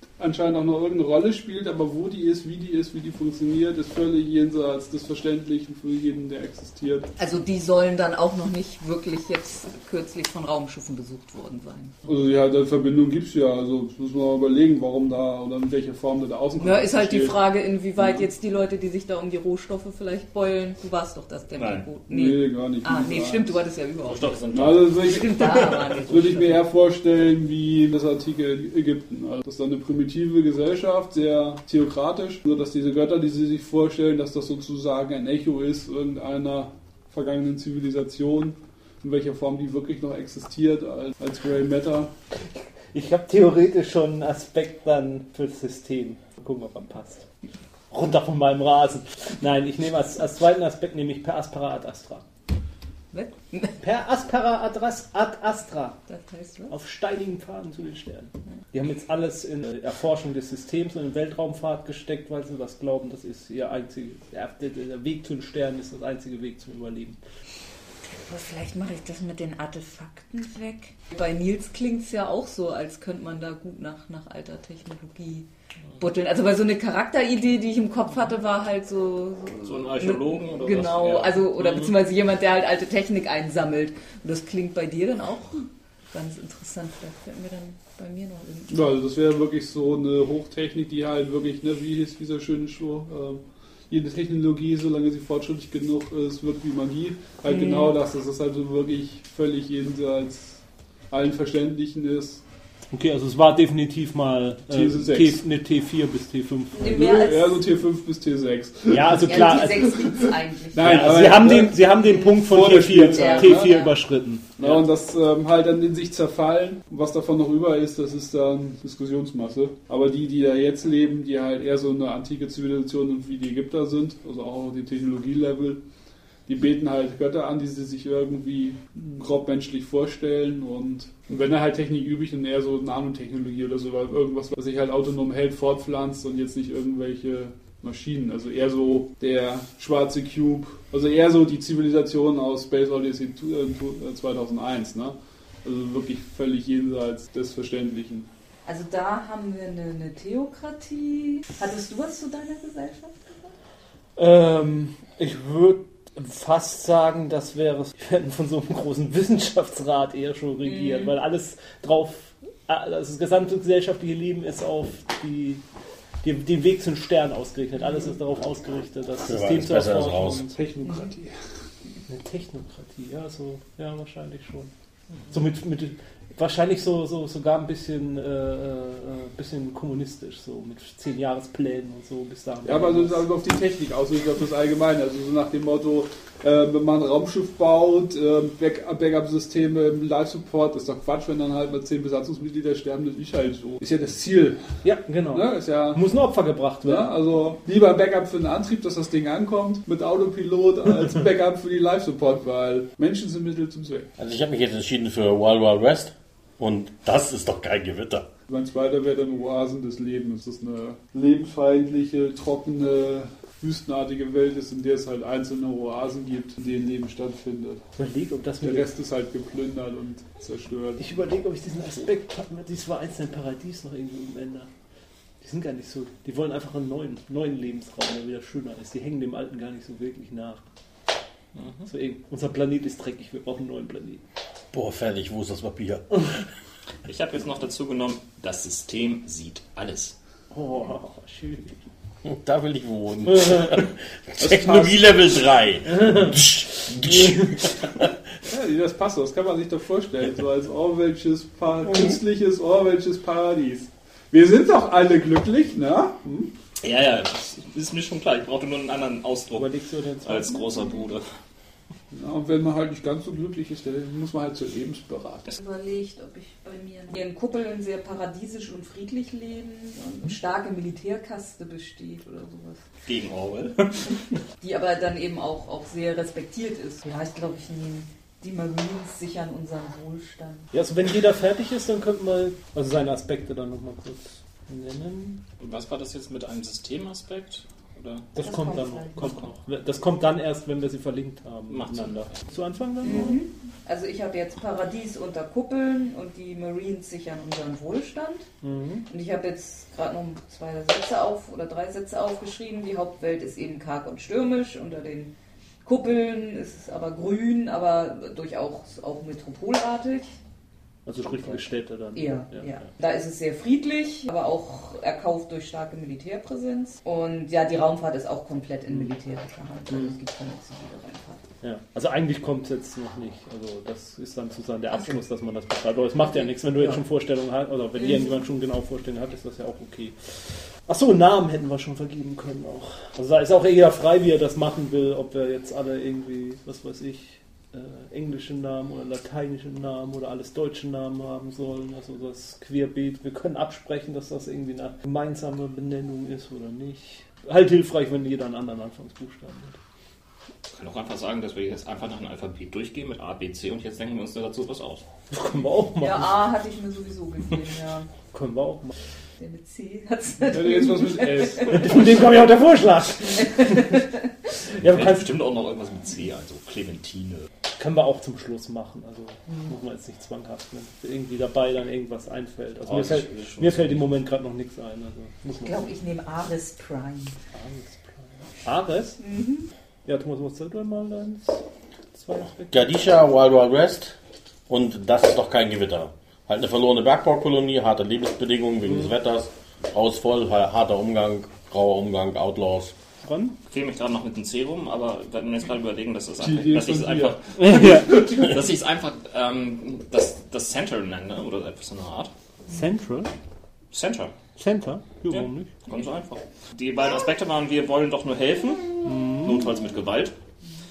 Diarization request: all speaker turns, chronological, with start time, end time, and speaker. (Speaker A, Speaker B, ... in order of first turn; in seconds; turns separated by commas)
Speaker A: 0.2-7.1, Speaker B: 7.2-11.9, Speaker A: 12.0-17.4, Speaker B: 16.6-26.6, Speaker A: 18.0-18.2, Speaker C: 21.5-21.9, Speaker A: 22.1-23.6, Speaker C: 24.0-25.9, Speaker A: 24.5-25.5, Speaker A: 26.0-42.1, Speaker D: 42.5-47.2, Speaker D: 47.9-52.2, Speaker B: 53.1-53.8, Speaker D: 53.8-56.0, Speaker B: 56.1-56.7, Speaker D: 56.7-67.2, Speaker B: 68.2-75.5, Speaker B: 76.0-88.9, Speaker C: 79.6-81.9, Speaker A: 88.7-102.4, Speaker B: 97.5-97.9, Speaker D: 102.9-107.0, Speaker A: 104.7-105.4, Speaker A: 106.8-113.8, Speaker B: 106.8-107.6, Speaker D: 108.9-109.9, Speaker B: 109.2-111.4, Speaker D: 110.8-114.8, Speaker B: 113.1-113.9, Speaker A: 114.6-125.8, Speaker A: 126.5-148.3, Speaker B: 148.7-153.5, Speaker D: 154.2-165.6, Speaker B: 160.6-161.1, Speaker D: 166.2-170.6, Speaker E: 169.3-170.4, Speaker A: 170.5-171.4, Speaker D: 172.1-174.7, Speaker D: 175.3-183.3, Speaker A: 182.6-194.7, Speaker D: 194.8-197.1, Speaker A: 195.3-196.0, Speaker A: 196.8-204.1, Speaker E: 204.2-208.3, Speaker A: 208.5-217.8, Speaker D: 218.0-218.9, Speaker A: 218.6-221.1, Speaker D: 221.0-224.7, Speaker D: 225.4-230.6, Speaker C: 231.5-231.9, Speaker D: 231.9-234.2, Speaker E: 234.7-236.4, Speaker C: 237.0-240.1, Speaker D: 240.5-241.7, Speaker E: 242.2-248.1, Speaker D: 243.3-243.8, Speaker A: 244.4-245.0, Speaker D: 245.9-246.3, Speaker D: 247.1-247.5, Speaker A: 248.4-256.5, Speaker C: 256.8-259.7, Speaker D: 259.5-260.9, Speaker C: 260.2-261.2, Speaker A: 262.1-265.5, Speaker B: 265.5-272.8, Speaker C: 273.0-274.2, Speaker B: 274.6-280.7, Speaker D: 280.7-285.4, Speaker C: 285.6-288.3, Speaker D: 288.3-293.4, Speaker B: 288.4-289.5, Speaker C: 291.7-292.3, Speaker B: 293.0-298.5, Speaker D: 298.6-299.1, Speaker B: 299.1-305.3, Speaker B: 305.8-310.3, Speaker D: 311.1-312.7, Speaker B: 312.1-321.5, Speaker D: 318.9-319.1, Speaker D: 319.9-320.1, Speaker D: 321.6-349.8, Speaker B: 326.4-327.0, Speaker C: 350.7-355.0, Speaker D: 355.3-356.3, Speaker B: 356.0-358.1, Speaker D: 358.3-358.9, Speaker B: 359.4-362.0, Speaker A: 360.5-361.8, Speaker D: 361.7-364.0, Speaker B: 363.4-364.0, Speaker D: 364.7-365.3, Speaker C: 364.8-367.5, Speaker D: 367.8-375.9, Speaker C: 372.9-374.0, Speaker B: 375.6-377.4, Speaker D: 377.5-379.2, Speaker B: 379.2-379.7, Speaker D: 380.1-381.6, Speaker D: 382.1-382.7, Speaker E: 382.7-384.1, Speaker E: 384.7-392.9, Speaker D: 393.2-393.6, Speaker C: 393.7-402.3, Speaker A: 396.4-398.4, Speaker D: 397.6-398.4, Speaker D: 402.7-403.3, Speaker C: 403.9-404.3, Speaker D: 404.6-405.7, Speaker C: 405.3-410.3, Speaker D: 409.0-409.6